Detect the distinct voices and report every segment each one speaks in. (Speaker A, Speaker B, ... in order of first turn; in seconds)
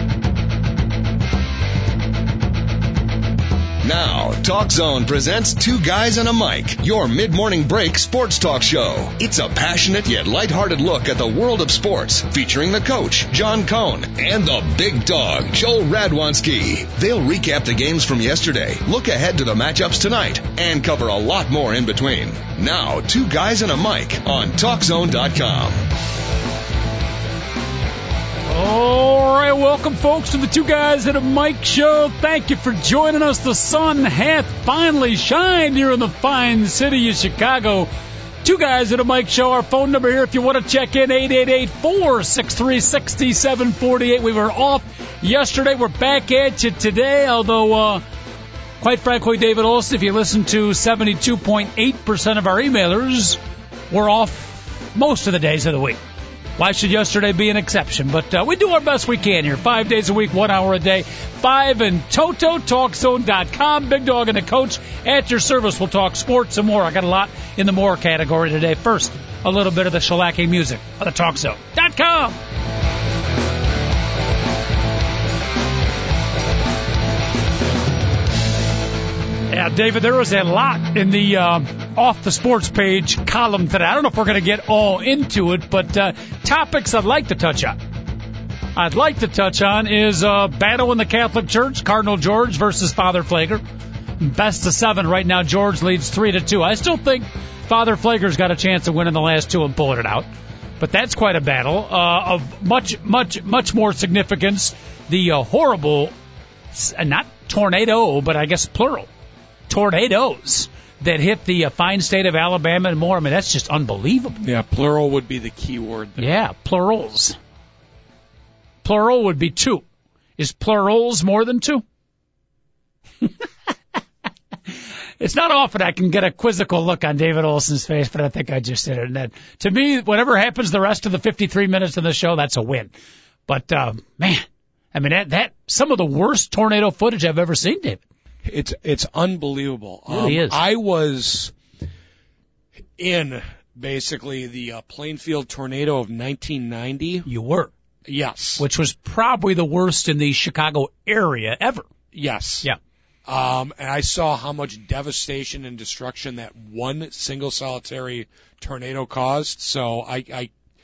Speaker A: 3.8-25.9
Speaker B: 28.5-37.9, 38.4-48.0, 48.8-53.4, 53.9-56.0, 56.5-72.4, 79.5-87.8, 88.7-93.6, 94.2-100.3, 100.8-106.1, 106.7-109.1, 109.7-114.4, 116.2-117.4, 118.8-119.8, 120.4-121.8, 125.2-132.9, 133.5-138.0, 140.1-140.6, 147.2-147.7, 148.6-151.9
Speaker C: 114.4-116.3, 138.4-141.5, 143.0-147.3, 148.1-148.6, 152.1-152.7, 153.3-160.5